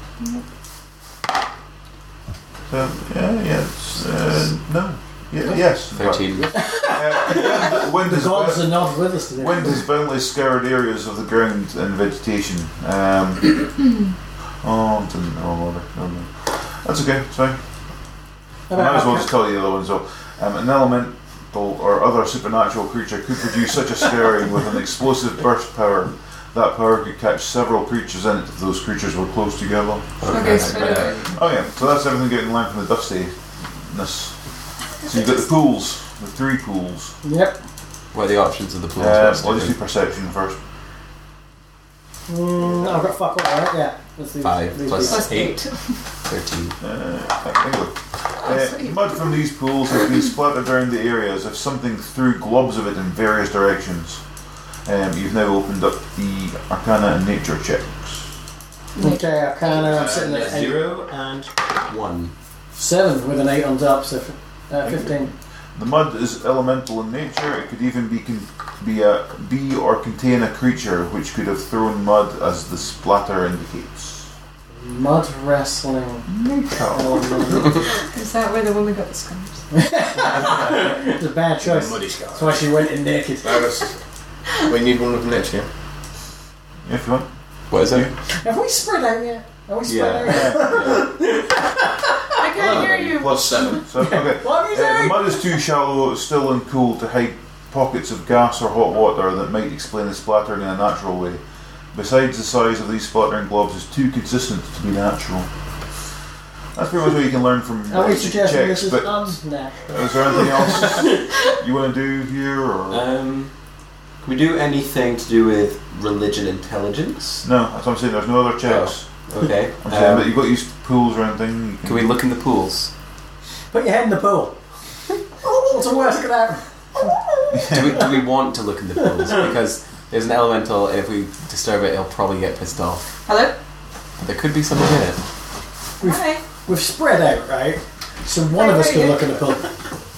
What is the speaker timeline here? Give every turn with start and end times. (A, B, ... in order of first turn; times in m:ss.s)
0:02.7-0:08.8 A
0:05.9-0:06.6 B
0:06.5-0:09.9 C
0:09.3-0:13.8 A
0:14.6-0:17.6 A
0:18.7-0:19.3 C
0:18.7-0:30.6 A
0:30.2-0:31.3 B
0:30.3-0:31.3 D
0:31.3-0:34.4 A
0:35.0-0:37.2 A
0:35.0-0:35.4 D
0:37.2-0:37.6 C
0:38.1-0:39.8 B
0:39.0-0:40.6 A
0:42.3-0:45.3 C
0:44.4-0:45.6 B
0:45.0-0:46.0 D
0:46.2-0:46.8 B
0:46.8-0:54.2 A
0:48.4-0:49.0 D
0:54.8-0:58.3 A
0:59.0-0:59.5 D
0:59.0-1:01.5 C
0:59.7-1:01.1 B
1:01.9-1:02.3 B
1:02.8-1:05.3 C
1:04.8-1:14.3 A
1:14.7-1:16.3 C
1:16.3-1:17.6 A
1:16.9-1:17.8 C
1:17.8-1:19.6 D
1:19.7-1:23.7 C
1:20.2-1:21.0 E
1:21.6-1:22.8 E
1:23.4-1:24.0 E
1:24.6-1:25.7 E
1:26.8-1:28.2 A
1:27.7-1:28.1 B
1:28.3-1:31.6 C
1:29.9-1:31.1 B
1:30.3-1:30.9 A
1:32.4-1:33.8 D
1:32.5-1:33.8 E
1:32.6-1:41.4 A
1:34.0-1:35.4 C
1:41.9-1:45.5 A
1:46.8-1:49.3 A
1:47.9-1:50.0 C
1:49.9-1:53.1 A
1:52.9-1:53.5 B
1:54.2-1:57.5 B
1:57.4-1:59.3 A
1:58.6-2:00.3 B
1:59.8-2:02.1 A
2:01.8-2:02.9 B
2:03.7-2:04.6 C
2:05.4-2:08.1 C
2:07.7-2:13.1 B
2:13.3-2:13.6 D
2:14.2-2:15.2 B
2:16.0-2:16.4 D
2:16.0-2:19.7 C
2:18.5-2:19.2 D